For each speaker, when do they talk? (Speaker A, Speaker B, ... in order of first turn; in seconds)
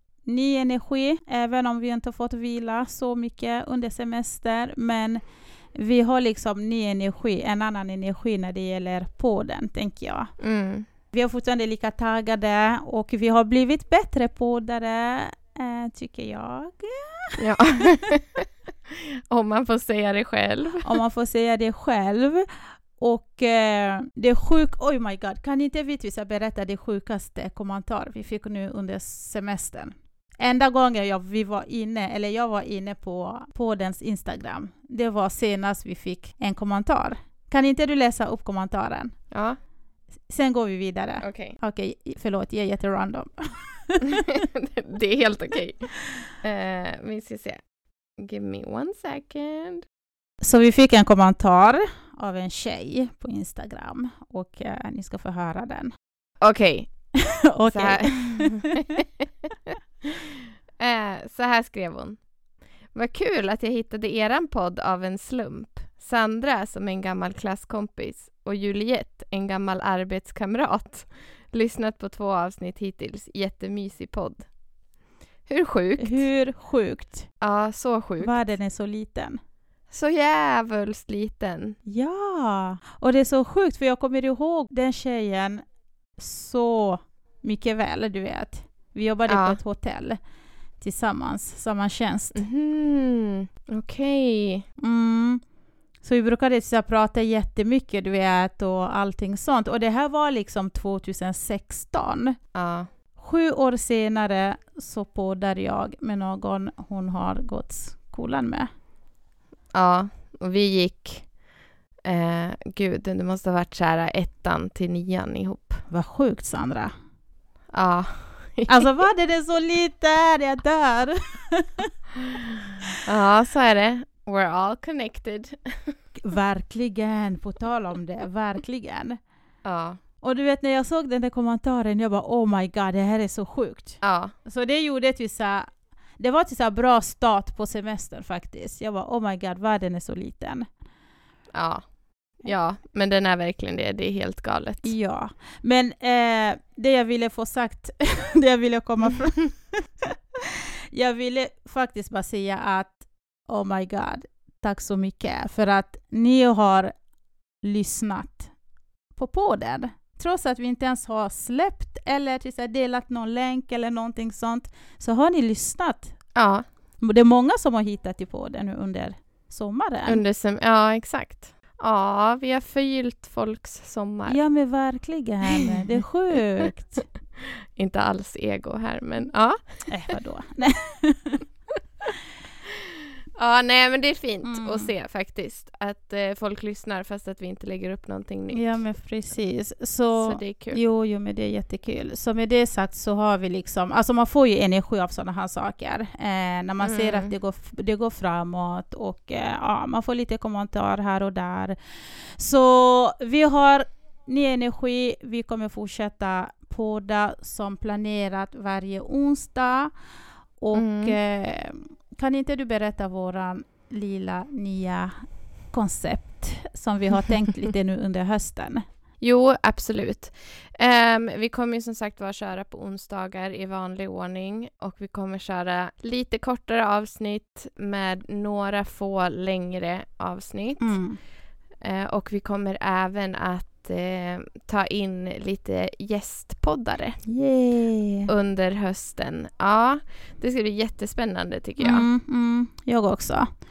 Speaker A: 0.2-5.2, 5.7-10.3, 11.1-17.4, 20.8-22.4, 23.0-39.1, 40.3-44.3, 50.4-55.9, 57.5-58.8, 76.0-77.3, 78.2-79.4, 81.8-85.6, 86.2-90.2, 90.8-92.4, 94.8-95.4, 96.0-102.3, 103.2-108.7, 115.9-116.9, 118.7-121.8, 126.2-129.2, 130.2-140.6, 144.8-150.1, 150.9-156.9, 157.6-158.5, 159.1-166.2, 167.0-170.2, 174.3-177.0, 179.9-181.4, 184.4-184.9, 188.5-201.8, 202.3-209.9, 210.6-215.1, 215.7-218.8, 230.8-231.2, 237.3-238.3, 241.8-243.5
Speaker B: 10.4-10.9, 17.4-18.4, 19.3-20.9, 39.3-39.6, 41.2-41.5, 44.4-47.6, 48.2-49.8, 56.4-56.9, 57.7-59.0, 60.8-62.2, 62.9-74.4, 75.5-76.2, 77.4-78.4, 79.9-81.8, 89.3-89.6, 92.3-94.6, 102.5-102.9, 109.7-111.3, 112.0-115.8, 117.7-118.9, 123.0-125.9, 129.6-130.0, 134.0-134.3, 141.5-141.8, 142.4-144.9, 166.3-166.6, 170.1-174.4, 177.8-179.6, 183.3-188.8, 190.1-190.8, 196.8-197.3, 210.7-211.2, 219.2-231.0, 231.8-237.2, 238.3-242.1